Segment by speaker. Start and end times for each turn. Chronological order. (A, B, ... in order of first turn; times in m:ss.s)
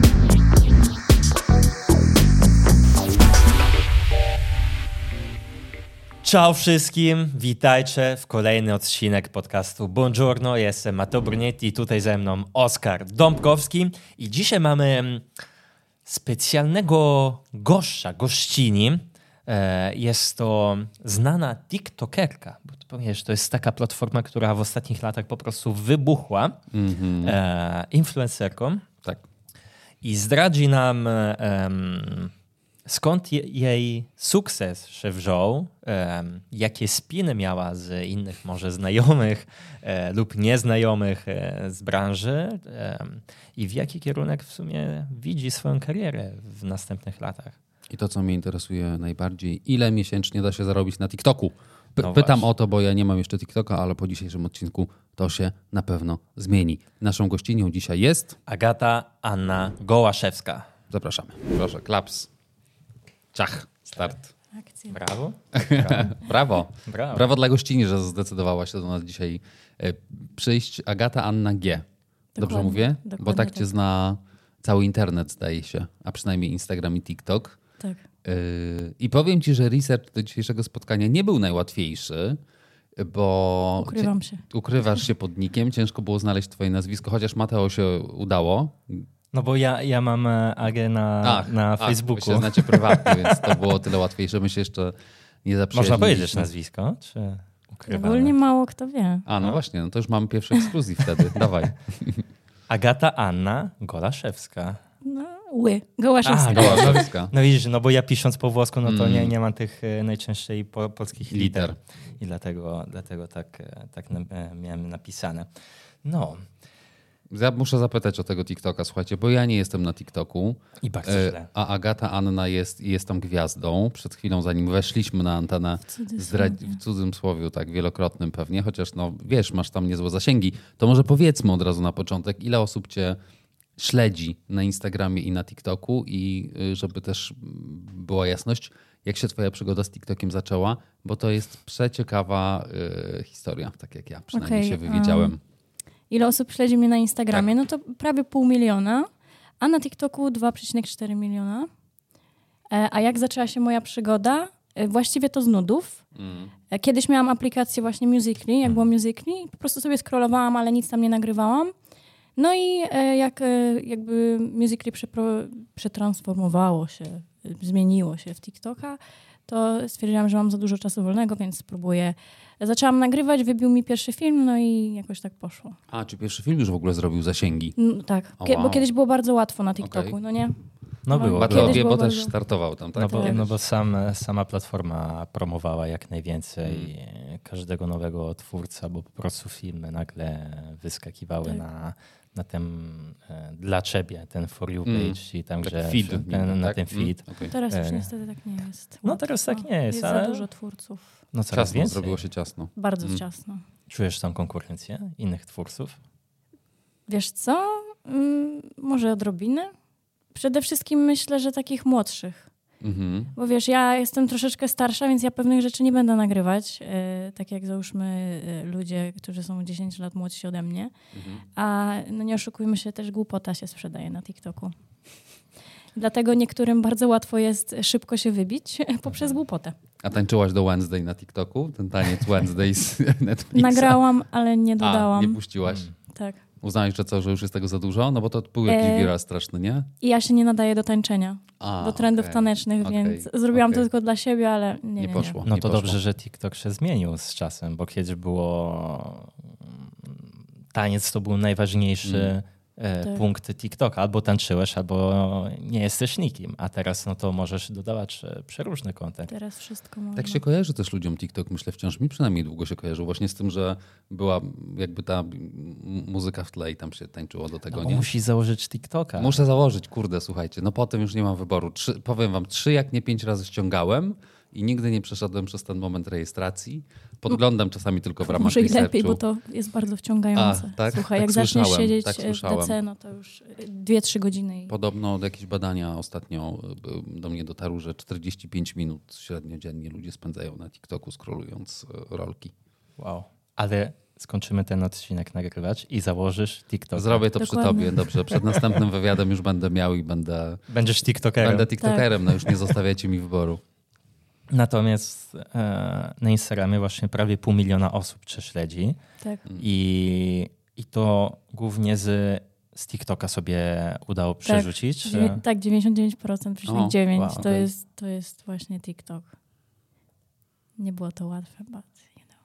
0:06.2-0:15.3 A
0:16.0-0:26.6 A
0:26.7-0:27.4 B
0:27.2-0:28.9 A
0:30.0-0:32.3 A
0:32.8-0:47.6 A
0:47.9-0:58.4 B
0:52.0-0:52.5 A
0:58.4-1:00.7 A
1:00.9-1:02.3 B
1:03.3-1:04.2 B
1:04.6-1:05.0 C
1:04.9-1:06.2 A
1:05.5-1:11.8 B
1:06.8-1:07.3 A
1:12.4-1:13.7 C
1:12.4-1:17.6 B
1:18.2-1:22.4 B
1:23.0-1:29.0 B
1:23.8-1:24.4 C
1:29.3-1:33.7 A
1:31.2-1:36.5 B
1:35.7-1:38.3 A
1:37.9-1:39.2 C
1:39.3-1:42.2 B
1:42.7-1:44.8 A
1:45.0-1:47.1 C
1:46.2-1:55.5 A
1:46.5-1:47.3 B
1:48.8-1:49.3 B
1:51.3-1:51.7 B
1:56.0-1:56.4 A
1:57.3-2:13.2 B
2:00.8-2:01.5 A
2:05.9-2:06.8 C
2:13.8-2:25.4 B
2:24.3-2:25.3 C
2:26.1-2:29.1 C
2:29.6-2:31.7 C
2:32.7-2:36.0 C
2:36.2-2:36.5 B
2:36.7-2:41.7 C
2:42.4-2:55.8 C
2:55.9-2:57.8 B
2:57.8-3:00.6 C
2:58.4-2:58.8 B
2:59.8-3:00.2 B
3:01.0-3:01.8 A
3:01.1-3:02.3 C
3:01.4-3:03.6 B
3:02.9-3:18.1 A
3:03.1-3:03.3 C
3:06.6-3:06.9 B
3:14.8-3:17.5 B
3:17.5-3:21.2 C
3:19.0-3:20.4 A
3:21.3-3:22.2 A
3:21.5-3:23.2 B
3:22.8-3:23.6 C
3:23.9-3:26.0 A
3:27.1-3:29.7 C
3:30.3-3:32.5 C
3:32.8-3:33.3 B
3:33.3-3:40.9 C
3:41.1-3:41.4 B
3:41.6-3:44.7 C
3:45.9-3:49.7 C
3:50.0-3:54.0 B
3:53.5-3:55.4 C
3:54.8-3:55.9 B
3:55.6-3:55.9 A
3:56.1-3:56.4 C
3:56.6-3:59.9 B
3:58.6-3:59.1 C
4:00.0-4:05.4 C
4:01.6-4:03.8 B
4:05.0-4:06.0 B
4:05.4-4:19.3 A
4:12.0-4:12.3 B
4:19.3-4:20.4 C
4:20.2-4:28.1 B
4:27.7-4:29.4 A
4:29.2-4:39.2 B
4:38.2-4:44.7 C
4:40.3-4:42.8 B
4:44.7-4:52.5 B
4:53.0-4:57.3 A
4:57.0-5:00.6 B
4:57.4-4:58.0 C
5:00.7-5:01.8 A
5:01.4-5:03.6 B
5:01.8-5:02.1 C
5:04.5-5:09.0 A
5:09.6-5:15.4 A
5:14.4-5:19.3 C
5:16.7-5:17.6 B
5:17.1-5:17.5 A
5:20.8-5:22.2 C